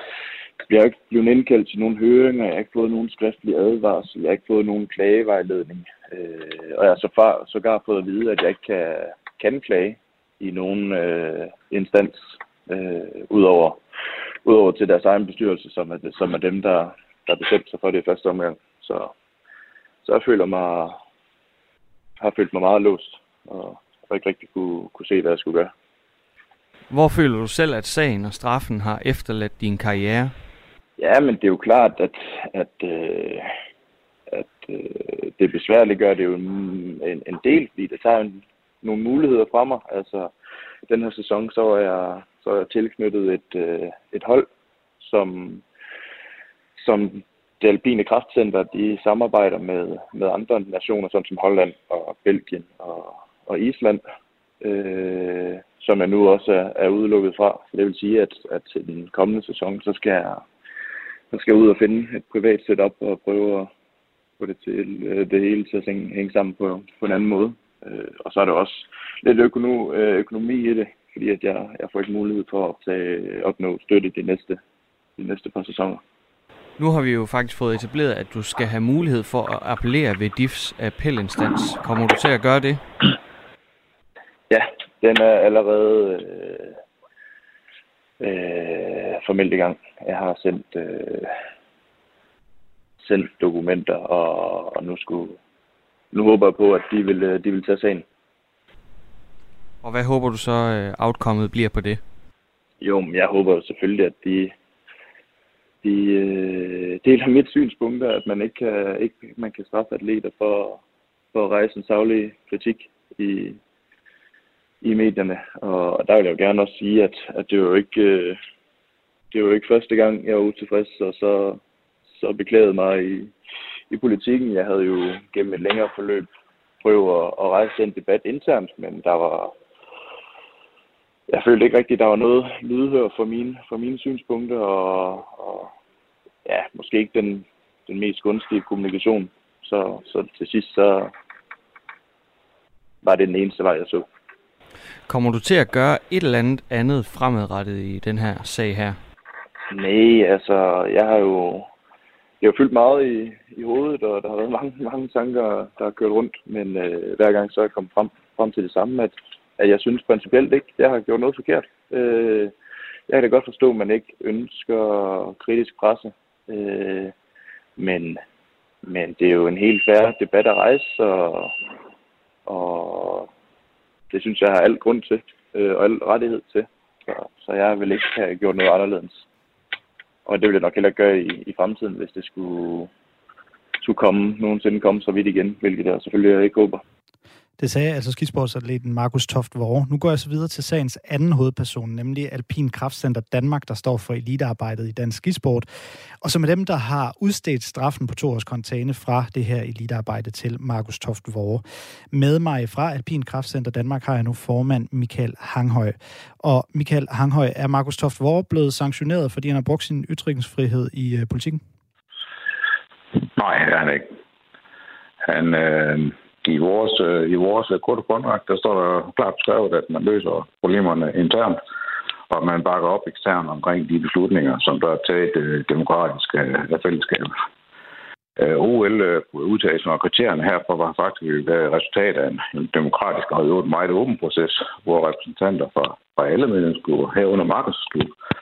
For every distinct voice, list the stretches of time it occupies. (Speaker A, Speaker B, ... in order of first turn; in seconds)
Speaker A: 0.7-13.8, 14.4-19.1, 20.1-21.0, 22.2-25.7, 31.0-33.5, 34.3-40.3, 40.9-44.5, 45.0-45.6, 46.8-54.0, 54.6-60.4, 61.3-63.7, 64.4-74.6, 75.2-76.0, 84.5-86.8, 88.2-91.3, 93.0-95.4, 96.1-98.0, 102.8-104.5, 105.8-110.8, 111.3-113.6, 114.8-118.4, 119.3-121.6, 122.2-123.3, 123.9-126.3, 126.8-129.5, 131.3-135.7, 136.4-141.1, 143.0-144.1, 149.7-151.7, 152.4-162.5, 163.1-167.1, 167.8-168.2, 168.9-171.6, 172.5-173.3, 174.1-179.2, 180.3-182.9, 183.8-186.8
Speaker B: 26.9-30.4, 76.8-82.8, 99.8-102.0, 145.1-149.0
Speaker C: 187.6-195.7, 196.2-211.6
Speaker D: 213.4-214.1, 215.3-221.6, 222.3-227.3, 228.4-238.2